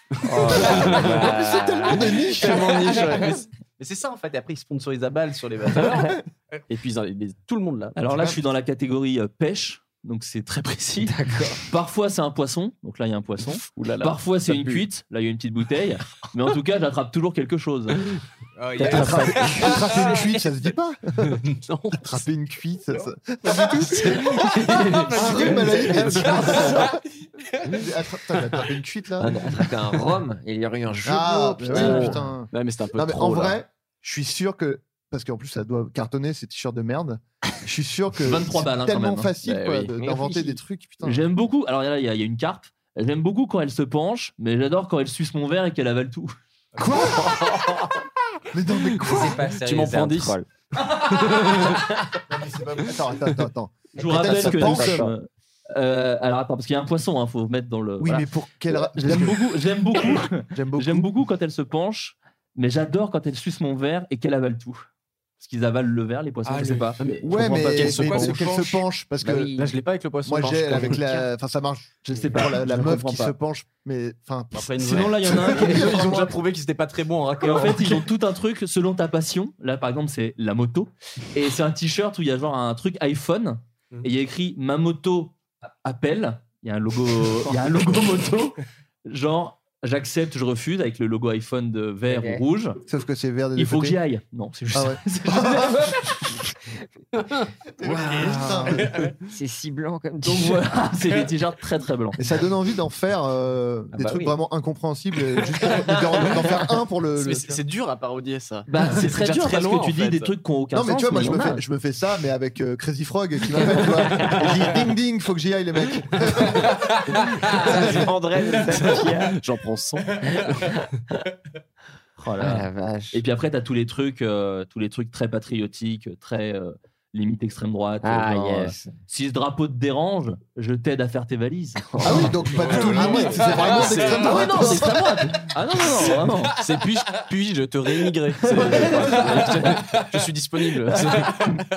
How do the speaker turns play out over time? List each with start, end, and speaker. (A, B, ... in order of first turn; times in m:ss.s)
0:00.2-0:02.3 A
0:00.5-0:08.0 B
0:01.0-0:03.3 C
0:08.0-0:18.1 D
0:11.0-0:11.6 A
0:13.7-0:14.8 B
0:18.6-0:20.3 E
0:18.8-0:19.5 B
0:18.8-0:21.4 C
0:21.4-0:22.2 B
0:22.0-0:24.5 C
0:23.6-0:27.8 E
0:23.9-0:26.8 B
0:25.1-0:27.0 C
0:27.7-0:29.3 C
0:29.2-0:32.1 A
0:31.0-0:41.3 C
0:31.7-0:33.6 B
0:31.7-0:32.2 D
0:38.2-0:39.3 D
0:39.4-0:40.4 B
0:40.0-0:40.6 A
0:41.0-0:46.4 D
0:46.8-0:47.4 C
0:47.2-0:47.9 A
0:48.5-0:49.4 C
0:49.0-0:50.5 A
0:49.4-0:51.8 B
0:52.3-0:55.0 C
0:54.0-0:55.1 A
0:54.0-1:04.8 D
0:58.0-0:59.5 C
1:00.5-1:01.1 C
1:05.4-1:08.0 D
1:06.4-1:07.0 E
1:07.0-1:08.5 B
1:07.2-1:09.5 C
1:07.9-1:08.8 E
1:09.2-1:09.8 A
1:09.6-1:11.0 B
1:10.2-1:16.4 C
1:10.8-1:11.2 A
1:12.1-1:13.4 D
1:14.5-1:18.1 B
1:14.8-1:16.1 D
1:17.4-1:32.8 D
1:32.1-1:32.4 A
1:32.9-1:34.0 C
1:33.6-1:36.0 D
1:34.7-1:36.0 C
1:37.8-1:39.1 C
1:37.8-1:40.7 A
1:40.2-1:42.2 D
1:42.2-1:47.6 C
1:43.9-1:44.3 A
1:47.2-1:50.3 B
1:48.7-1:51.6 D
1:50.7-1:56.7 C
1:57.2-1:59.4 A
1:57.5-2:00.7 B
2:00.5-2:00.9 A
2:02.2-2:12.3 D
2:02.4-2:03.2 A
2:08.0-2:09.0 A
2:11.9-2:12.3 A
2:12.0-2:15.4 C
2:12.5-2:14.1 E
2:12.6-2:14.9 B
2:14.1-2:16.6 D
2:16.0-2:21.6 B
2:18.5-2:19.8 D
2:21.1-2:21.4 D